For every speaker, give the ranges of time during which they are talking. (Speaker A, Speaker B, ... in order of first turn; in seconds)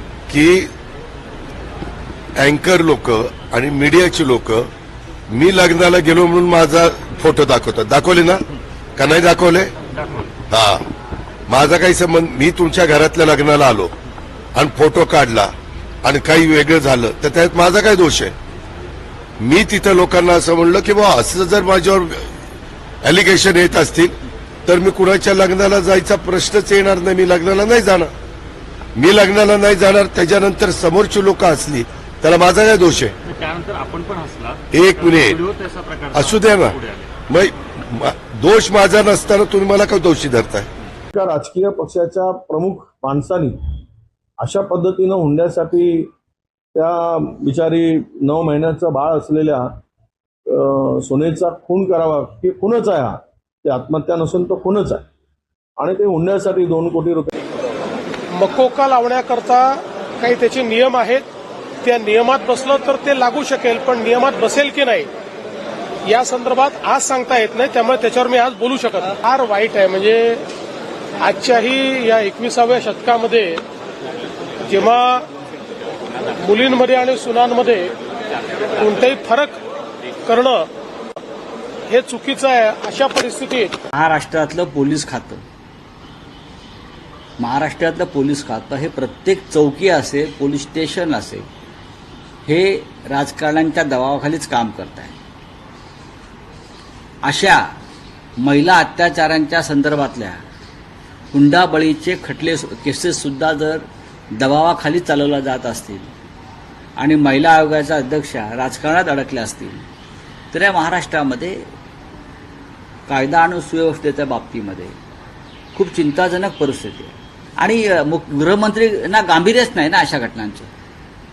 Speaker A: 0.3-0.7, 2.4-4.7, 5.3-8.4, 8.9-9.7, 10.5-10.9, 11.5-13.9, 14.5-18.3, 19.4-22.3, 23.0-28.1, 29.0-33.2, 34.7-35.3, 36.1-36.8, 37.3-40.7
Speaker B: 9.9-10.3, 33.2-37.1
Speaker C: 41.1-43.5, 44.4-46.1, 46.7-49.8, 50.5-55.0, 55.8-57.4
Speaker D: 58.3-61.3, 61.8-65.1, 66.0-70.5, 71.2-73.6, 74.6-75.3, 76.4-77.9, 78.8-79.6, 80.2-80.7, 81.9-83.7
Speaker E: 83.9-85.4, 87.4-91.5, 92.4-95.1, 97.2-97.7, 98.4-100.4, 101.3-106.1, 107.0-109.8, 110.5-111.6, 113.1-114.9, 115.7-120.7